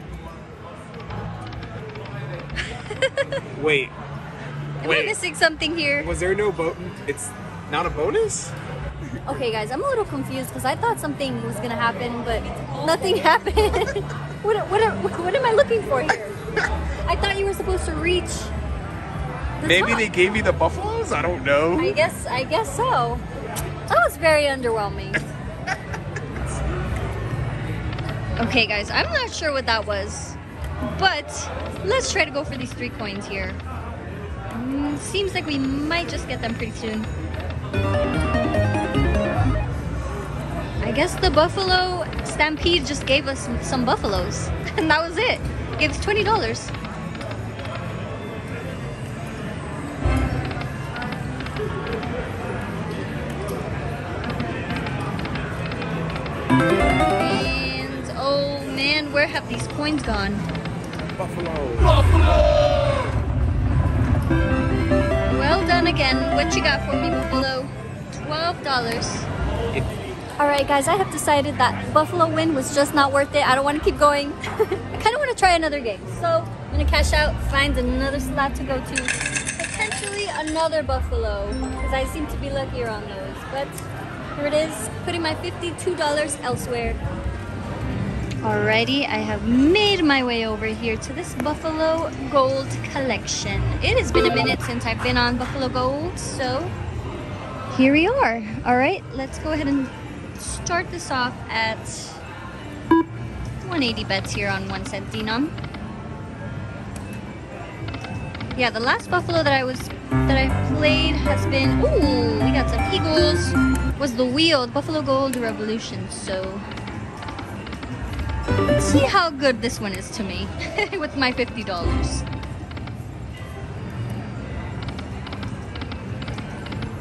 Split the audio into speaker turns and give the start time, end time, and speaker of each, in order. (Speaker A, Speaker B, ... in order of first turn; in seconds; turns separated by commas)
Speaker A: 2.6-3.4, Speaker B: 3.5-3.9, Speaker A: 4.8-6.1, Speaker B: 4.8-5.2, Speaker B: 6.0-8.5, Speaker A: 9.2-16.4, Speaker A: 17.0-18.5, Speaker A: 19.6-20.0, Speaker B: 19.6-22.0, Speaker A: 21.8-23.2, Speaker A: 23.9-25.2, Speaker A: 28.4-33.6, Speaker A: 34.5-37.1, Speaker A: 40.8-46.7, Speaker A: 57.2-60.5, Speaker B: 61.2-61.9, Speaker A: 65.2-69.3, Speaker A: 70.4-83.8, Speaker A: 84.3-87.0, Speaker A: 88.4-96.7, Speaker A: 97.7-102.2, Speaker A: 103.6-105.5, Speaker A: 108.5-116.6, Speaker A: 118.8-122.2